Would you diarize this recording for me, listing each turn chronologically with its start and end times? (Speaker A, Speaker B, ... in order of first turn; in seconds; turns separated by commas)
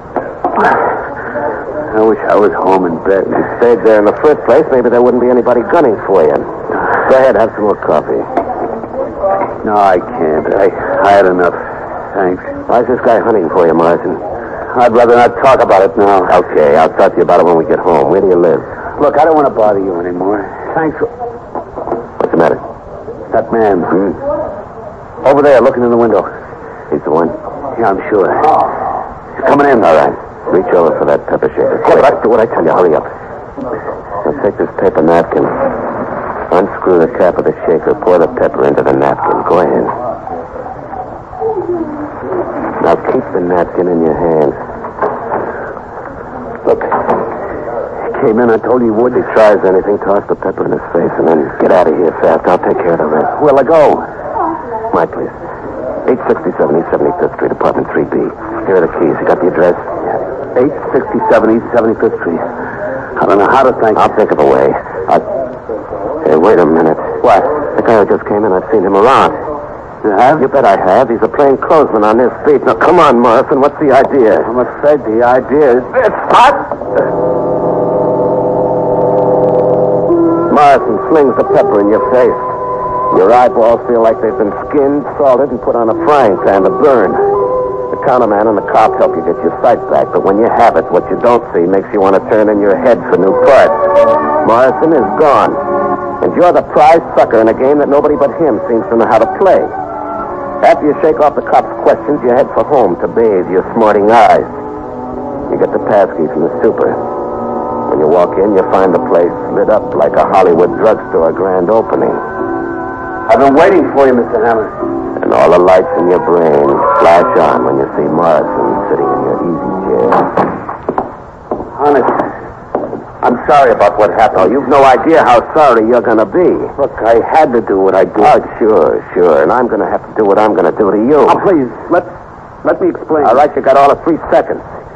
Speaker A: 1.9-3.5, Speaker B: 3.3-8.3, Speaker A: 9.6-12.5, Speaker B: 12.7-14.2, Speaker A: 14.7-16.4, Speaker B: 16.3-18.7, Speaker A: 19.0-21.1, Speaker B: 22.2-22.6, Speaker A: 23.3-24.1, Speaker A: 25.2-26.3, Speaker B: 26.9-27.4, Speaker A: 27.7-28.6, Speaker A: 29.4-30.1, Speaker B: 29.8-33.1, Speaker B: 34.2-35.7, Speaker B: 36.5-40.0, Speaker B: 42.8-44.6, Speaker A: 46.7-46.9, Speaker A: 48.1-49.2, Speaker B: 49.1-53.3, Speaker A: 53.3-54.0, Speaker B: 54.9-55.3, Speaker B: 56.0-59.9, Speaker A: 60.5-62.5, Speaker A: 63.2-64.1, Speaker B: 63.9-65.2, Speaker B: 66.2-69.4, Speaker A: 70.0-70.5, Speaker B: 70.4-74.5, Speaker A: 74.4-76.7, Speaker B: 80.5-82.5, Speaker B: 83.1-87.2, Speaker B: 87.9-93.9, Speaker B: 94.4-95.6, Speaker B: 96.2-99.7, Speaker B: 100.6-104.5, Speaker B: 105.5-107.0, Speaker B: 107.9-112.2, Speaker A: 113.3-114.8, Speaker B: 115.2-120.3, Speaker A: 121.7-122.3, Speaker A: 123.2-124.5, Speaker B: 124.3-126.7, Speaker A: 126.8-128.3, Speaker B: 128.2-131.4, Speaker A: 131.2-132.1, Speaker A: 132.6-133.4, Speaker B: 133.2-134.7